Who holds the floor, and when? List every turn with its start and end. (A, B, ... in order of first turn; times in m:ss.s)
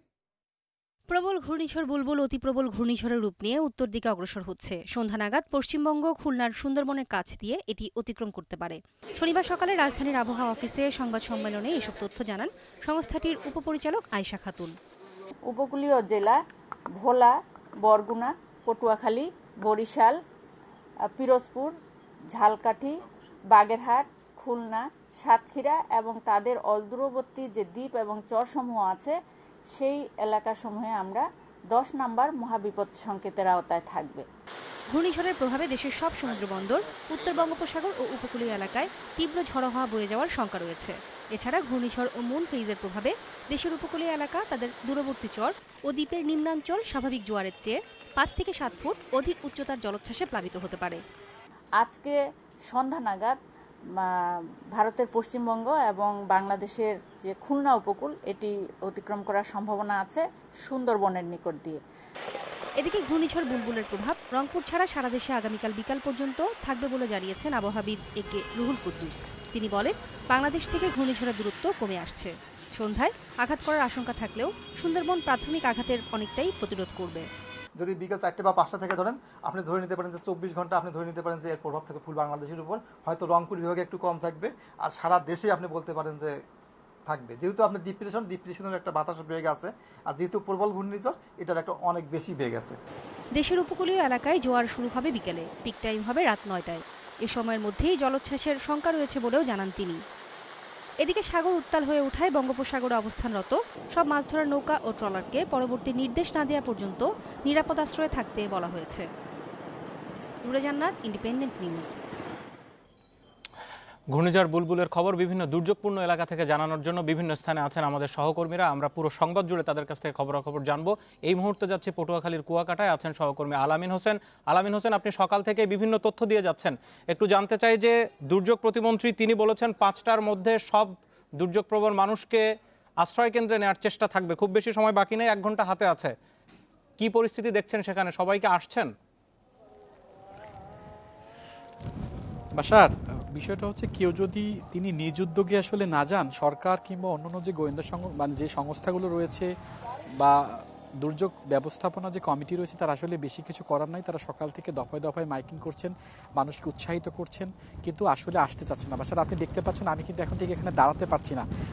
0:01.1-0:14.7 A
0:15.4-0:16.4 B
0:17.0-0:20.2 B
0:21.1-0:21.7 B
0:22.3-0:23.0 B
0:23.5-0:29.2 B
0:29.7-0:34.2 B
0:34.9-0:51.0 A
0:51.8-0:53.4 B
0:54.0-1:01.8 B
1:02.8-1:17.3 A
1:17.8-1:26.4 C
1:27.0-1:32.8 C
1:33.4-1:40.0 A
1:41.0-1:49.1 A
1:50.4-1:51.9 A
1:54.1-2:12.4 D
2:13.0-2:16.1 D
2:17.0-2:18.9 D
2:22.6-2:29.5 E
2:30.2-2:41.4 E